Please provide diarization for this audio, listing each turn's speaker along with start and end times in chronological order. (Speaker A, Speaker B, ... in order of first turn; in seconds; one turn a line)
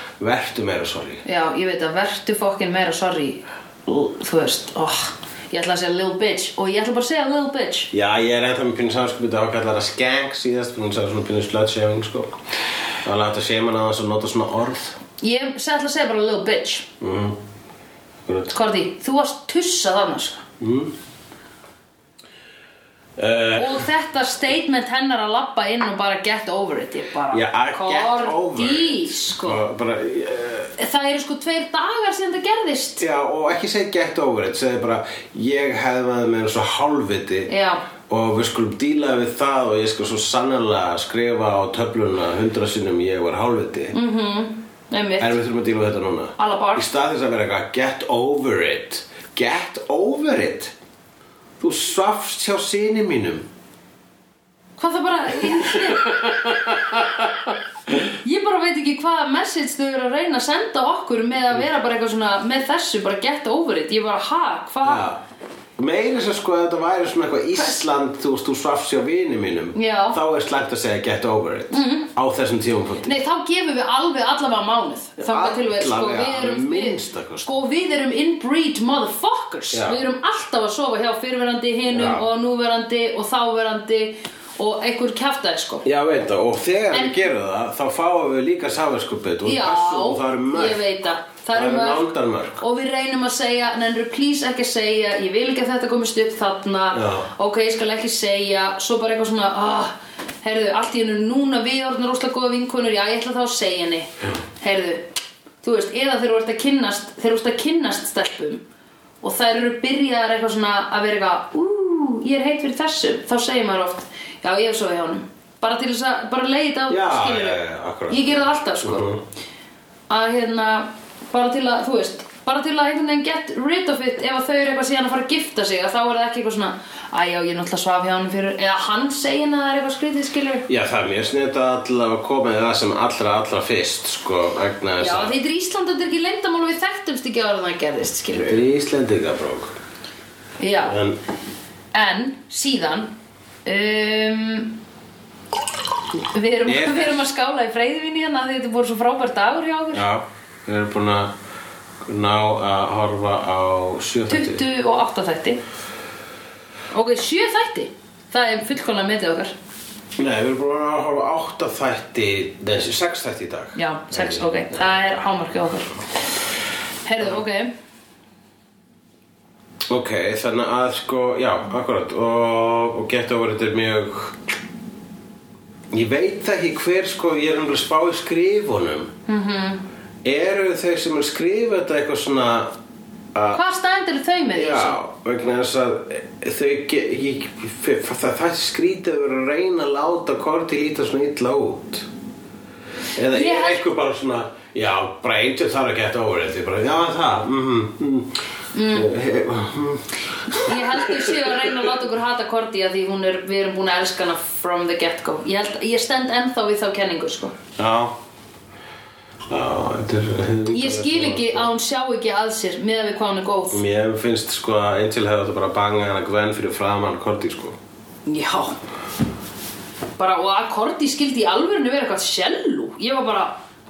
Speaker A: 0.2-1.2
Speaker B: 1.2-7.9
Speaker A: 7.9-12.4
Speaker A: 13.0-15.0
Speaker B: 15.2-16.9
Speaker A: 17.0-17.4
Speaker A: 18.3-18.5
Speaker B: 18.5-20.4
Speaker A: 20.6-20.9
Speaker A: 23.2-23.9
Speaker B: 23.6-29.6
Speaker A: 27.3-30.7
Speaker B: 30.8-33.0
Speaker A: 33.0-37.5
Speaker B: 37.5-37.8
Speaker A: 38.1-44.0
Speaker B: 43.9-45.4
Speaker A: 45.2-50.7
Speaker B: 46.4-46.9
Speaker A: 51.6-53.5
Speaker B: 54.8-56.1
Speaker A: 55.9-57.3
Speaker B: 58.2-65.1
Speaker A: 64.8-65.2
Speaker A: 65.8-73.1
Speaker B: 69.8-70.2
Speaker B: 71.7-72.1
Speaker B: 73.0-85.8
Speaker A: 75.2-77.5
Speaker A: 79.7-80.0
Speaker A: 81.9-82.2
Speaker A: 85.8-90.8
Speaker B: 86.9-87.2
Speaker B: 89.5-105.1
Speaker A: 91.5-92.6
Speaker A: 96.9-97.3
Speaker B: 105.6-108.6
Speaker B: 109.2-119.1
Speaker A: 116.9-119.2
Speaker B: 120.1-130.7
Speaker A: 130.7-135.4
Speaker B: 135.0-138.6
Speaker A: 138.3-139.8
Speaker B: 140.6-141.0
Speaker A: 140.8-141.2
Speaker B: 141.9-143.1
Speaker B: 143.7-144.8
Speaker B: 146.3-150.1
Speaker A: 146.7-147.2
Speaker A: 149.9-151.3
Speaker A: 152.0-154.6
Speaker B: 154.3-155.6
Speaker B: 156.9-159.5
Speaker A: 160.2-164.4
Speaker B: 163.8-166.0
Speaker B: 167.1-167.7
Speaker A: 169.9-174.5
Speaker A: 175.9-179.1
Speaker B: 179.3-179.8
Speaker A: 180.2-182.7
Speaker A: 183.3-183.6
Speaker B: 183.5-185.0
Speaker A: 184.5-192.1
Speaker A: 193.2-198.4
Speaker B: 193.3-193.8
Speaker B: 198.7-199.1
Speaker A: 198.9-201.6
Speaker B: 200.5-207.6
Speaker A: 207.8-208.2
Speaker A: 209.5-211.7
Speaker B: 210.7-213.8
Speaker A: 213.7-217.8
Speaker B: 218.3-218.8
Speaker B: 220.2-223.6